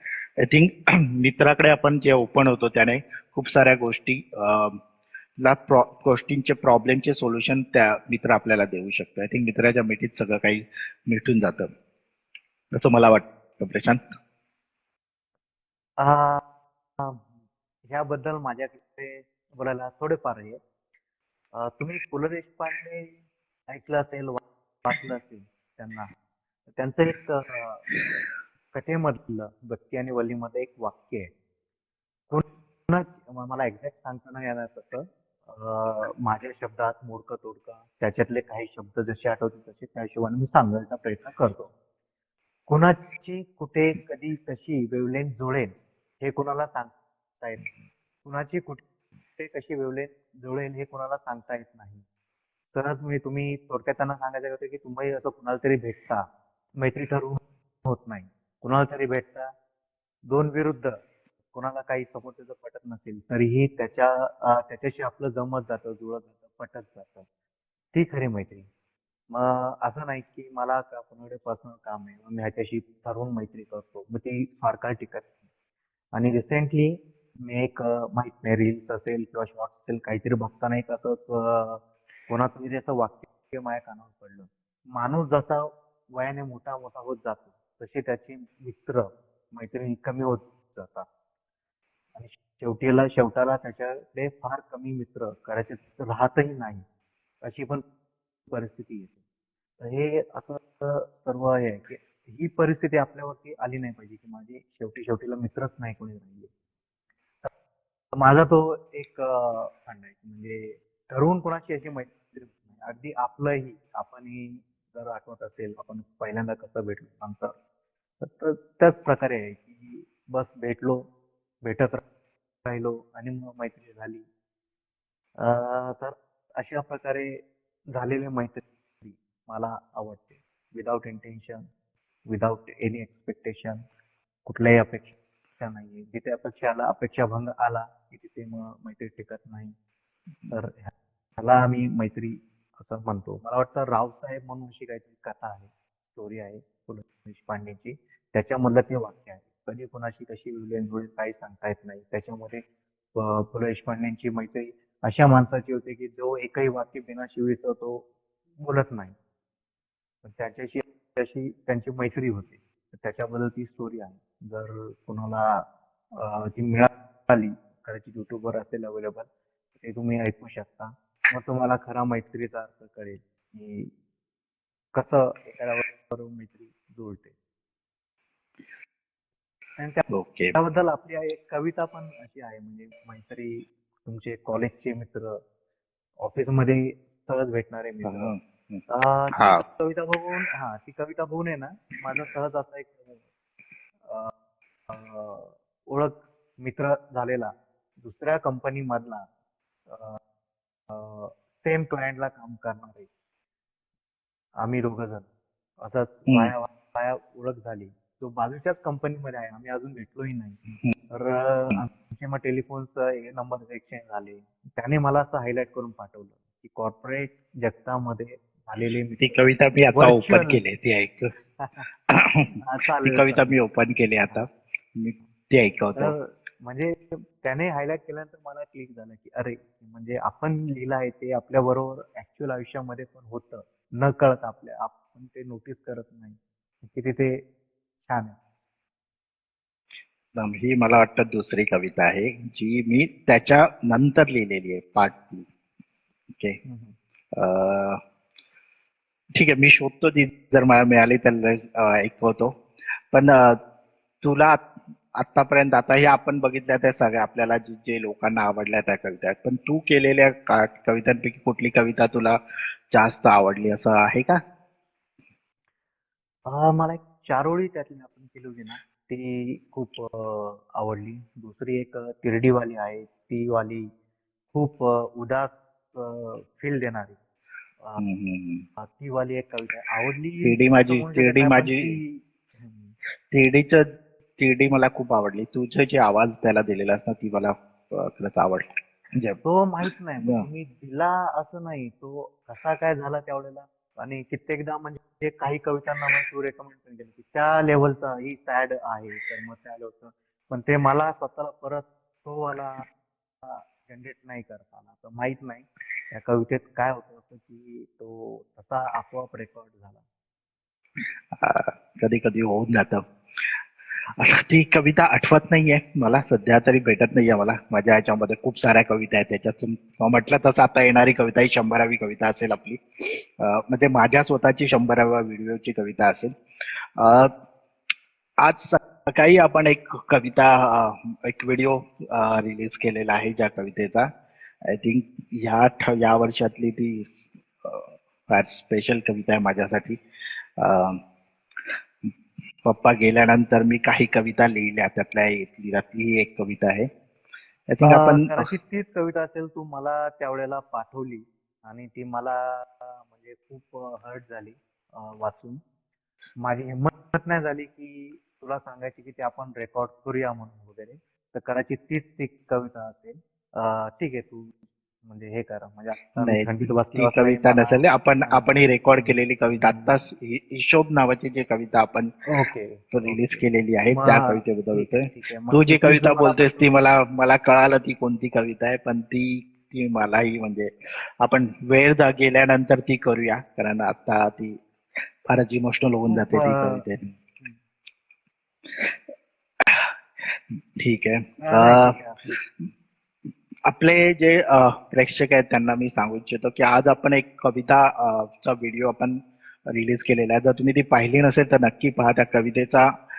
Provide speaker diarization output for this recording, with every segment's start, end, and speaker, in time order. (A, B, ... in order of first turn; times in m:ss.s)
0:00.4-0:04.8 A
0:05.4-0:11.7 A
0:12.7-0:14.0 A
0:16.0-0:16.4 B
0:17.0-0:17.3 B
0:17.9-0:20.6 B
0:21.6-0:26.1 B
0:26.8-0:27.9 B
0:28.7-0:31.3 B
0:32.3-0:41.7 B
0:42.7-0:47.6 B
0:48.2-0:48.8 B
0:49.4-0:52.1 B
0:52.7-0:59.5 B
1:00.3-1:00.9 B
1:01.5-1:07.2 B
1:07.9-1:08.7 B
1:09.3-1:15.3 B
1:16.1-1:31.1 B
1:32.1-1:36.8 B
1:37.4-1:37.8 B
1:38.5-1:39.2 B
1:39.8-1:46.5 B
1:48.1-1:57.5 B
1:58.2-2:01.0 B
2:01.6-2:02.0 B
2:02.6-2:04.3 B
2:05.4-2:07.4 B
2:07.9-2:11.6 B
2:12.3-2:13.8 B
2:14.4-2:19.7 B
2:20.5-2:32.6 B
2:33.1-2:38.1 B
2:38.6-2:39.2 B
2:40.2-2:45.6 B
2:46.2-2:49.3 B
2:49.8-2:53.9 B
2:54.9-2:57.3 B
2:59.8-3:05.4 B
3:00.1-3:00.6 A
3:06.2-3:08.4 B
3:08.0-3:08.8 A
3:08.9-3:13.2 B
3:09.4-3:09.6 A
3:14.9-3:19.3 B
3:19.9-3:20.2 B
3:20.9-3:23.1 B
3:24.6-3:25.3 B
3:25.8-3:30.6 B
3:26.3-3:26.5 A
3:31.1-3:39.4 B
3:39.2-3:41.3 A
3:39.9-3:40.6 B
3:41.6-3:41.9 B
3:42.1-3:46.1 A
3:42.6-3:43.6 B
3:46.0-3:56.4 B
3:56.9-3:57.4 B
3:58.1-3:58.4 B
4:00.4-4:05.5 A
4:06.3-4:06.6 A
4:06.6-4:07.0 B
4:07.4-4:08.0 A
4:09.4-4:12.6 A
4:13.1-4:13.6 A
4:14.2-4:14.6 A
4:15.2-4:22.4 A
4:22.9-4:24.4 A
4:26.5-4:33.9 B
4:34.5-4:37.2 B
4:38.0-4:38.6 A
4:38.8-4:42.9 B
4:40.4-4:42.0 A
4:43.3-4:43.8 A
4:44.4-4:49.4 A
4:49.4-5:02.9 B
5:03.4-5:10.0 B
5:11.3-5:13.0 A
5:14.2-5:26.4 A
5:27.0-5:27.3 A
5:28.4-5:34.1 A
5:34.7-5:40.0 A
5:40.6-5:41.0 A
5:42.6-5:46.9 A
5:47.7-5:48.5 A
5:47.8-5:55.6 B
5:56.4-6:04.5 B
6:05.0-6:09.9 B
6:06.2-6:12.1 A
6:12.3-6:16.8 B
6:12.9-6:20.7 A
6:21.2-6:24.6 A
6:25.3-6:27.1 A
6:26.1-6:26.9 B
6:29.6-6:32.6 A
6:31.4-6:32.2 B
6:33.7-6:42.9 A